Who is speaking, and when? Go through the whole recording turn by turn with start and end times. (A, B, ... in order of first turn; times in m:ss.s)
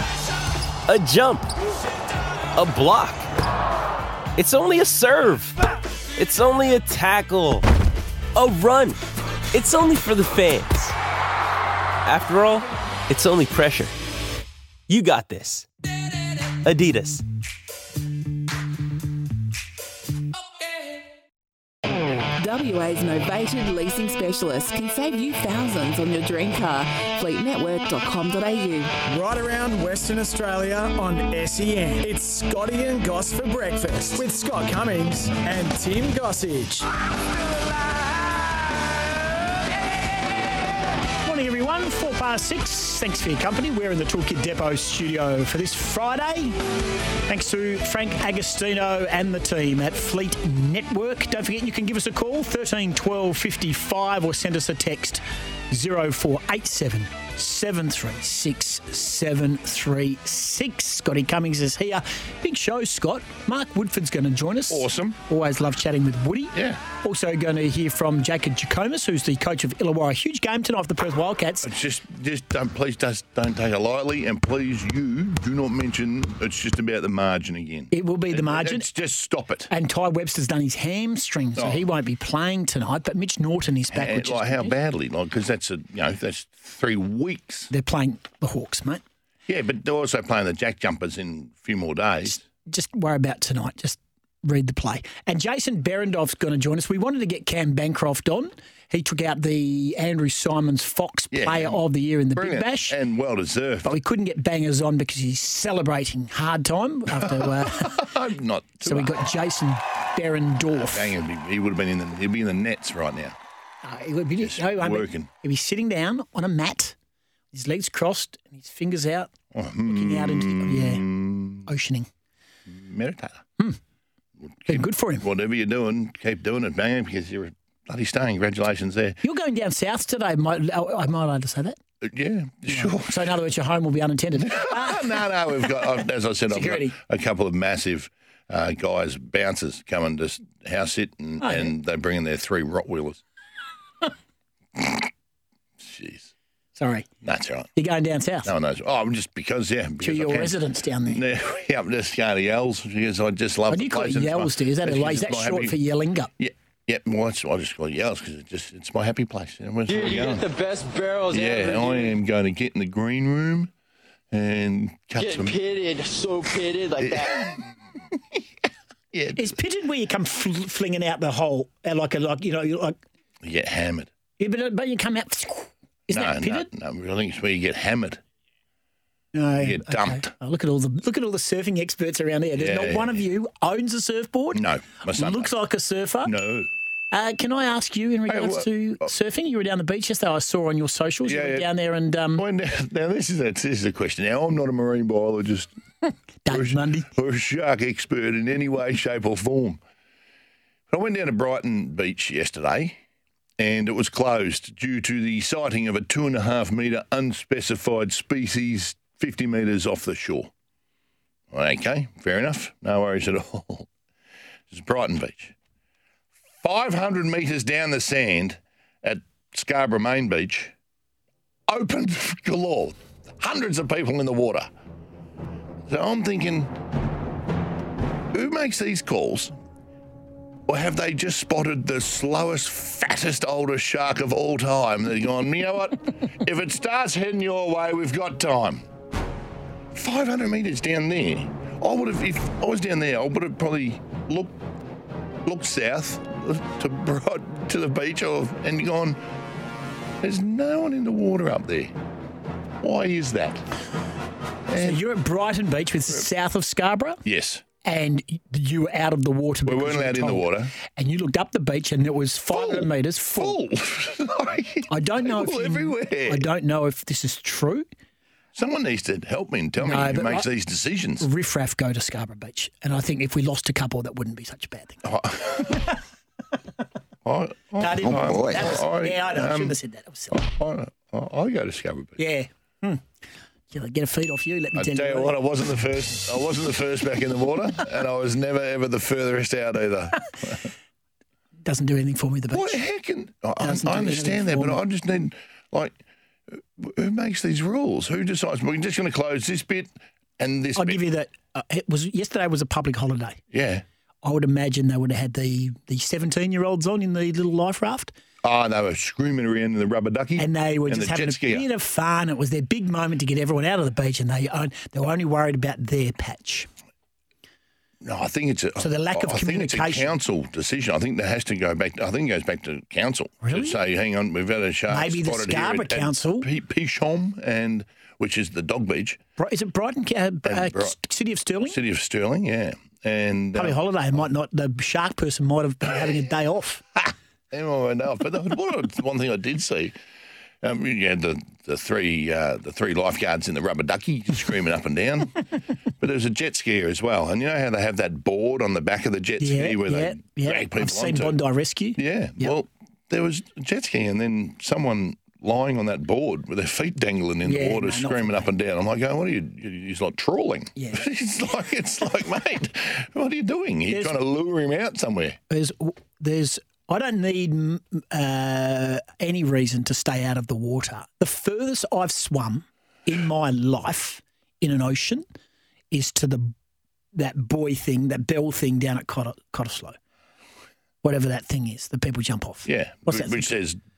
0:00.9-0:01.5 A
0:02.5-0:03.2 A
0:04.4-0:05.6 A
0:06.2-0:07.7 A
0:08.3-0:09.0 A
0:09.5-0:11.0 A
0:12.0-0:13.9 A
0:14.9-0:15.7 A
0:16.6-0:17.2 A
0:22.4-0:28.9 B
0:29.1-0:36.9 C
0:41.2-0:46.6 D
0:47.3-1:11.7 D
1:04.7-1:05.2 E
1:06.5-1:06.8 E
1:11.6-1:19.7 E
1:17.9-1:18.9 D
1:19.7-1:24.8 D
1:21.6-1:21.8 E
1:23.9-1:27.7 E
1:27.7-1:29.0 D
1:29.5-1:32.4 E
1:32.2-1:43.0 D
1:41.3-1:41.8 E
1:42.3-1:44.0 E
1:43.8-1:48.1 D
1:47.2-1:49.2 E
1:48.8-1:51.1 D
1:50.7-1:53.4 E
1:53.8-1:57.0 D
1:54.4-1:55.3 E
1:57.5-1:59.3 D
1:59.5-2:01.7 E
1:59.8-2:01.0 D
2:01.6-2:02.1 D
2:02.7-2:03.4 E
2:04.6-2:09.2 E
2:04.7-2:05.2 D
2:09.2-2:11.8 D
2:12.0-2:13.3 E
2:12.7-2:15.1 D
2:14.4-2:23.2 E
2:16.5-2:17.0 D
2:21.4-2:21.7 D
2:24.8-2:25.1 E
2:25.8-2:26.3 E
2:26.8-2:27.1 D
2:27.2-2:27.7 E
2:27.8-2:28.5 D
2:28.4-2:35.8 E
2:30.0-2:31.2 D
2:33.7-2:36.3 D
2:36.4-2:40.5 E
2:39.9-2:42.2 F
2:41.3-2:43.7 E
2:44.3-2:45.6 E
2:45.2-2:47.6 F
2:47.0-2:47.7 E
2:49.1-2:49.6 E
2:49.4-2:53.0 D
2:53.4-2:54.1 E
2:54.4-2:56.7 D
2:56.1-2:58.2 E
2:59.3-3:06.3 D
2:59.6-3:00.3 E
3:02.6-3:03.2 E
3:04.5-3:05.5 E
3:06.2-3:06.7 E
3:07.1-3:12.4 D
3:08.3-3:09.1 E
3:11.2-3:11.7 E
3:12.4-3:15.7 E
3:16.4-3:17.1 D
3:16.5-3:19.8 E
3:20.9-3:23.0 E
3:23.6-3:30.5 E
3:31.5-3:33.9 E
3:34.7-3:35.6 E
3:36.6-3:40.7 E
3:41.7-3:44.7 E
3:45.9-3:46.7 E
3:48.3-3:49.5 E
3:50.7-3:58.8 E
3:59.9-4:04.6 E
4:05.4-4:09.2 E
4:10.2-4:11.9 E
4:12.8-4:13.7 E
4:14.7-4:15.0 E
4:14.8-4:17.2 D
4:17.2-4:17.6 E
4:17.8-4:23.6 D
4:19.7-4:20.7 E
4:22.5-4:26.5 E
4:24.9-4:27.9 D
4:28.6-4:31.3 E
4:29.8-4:30.5 D
4:31.2-4:35.0 D
4:35.0-4:35.9 E
4:37.2-4:39.8 E
4:37.8-4:40.4 D
4:40.3-4:42.2 E
4:42.2-4:43.0 D
4:43.7-4:45.4 D
4:44.8-4:50.7 E
4:51.6-4:52.8 D
4:52.5-4:56.0 E
4:53.6-4:54.8 D
4:56.5-5:01.1 E
5:00.8-5:03.4 D
5:03.5-5:03.8 E
5:04.2-5:08.1 D
5:08.4-5:11.7 E
5:10.4-5:16.7 D
5:18.0-5:29.2 E
5:18.8-5:20.1 D
5:23.4-5:23.8 D
5:24.9-5:26.5 D
5:29.4-5:31.8 D
5:30.4-5:30.9 E
5:31.6-5:33.8 E
5:33.5-5:36.8 D
5:37.1-5:40.0 E
5:40.6-5:45.4 E
5:46.0-5:51.4 E
5:49.4-5:52.6 D
5:52.0-6:05.4 E
5:57.4-5:58.5 D
6:00.8-6:01.0 D
6:03.9-6:04.2 D
6:05.5-6:15.2 D
6:15.9-6:16.5 D
6:17.1-6:20.0 D
6:21.0-6:23.5 D
6:22.6-6:23.8 E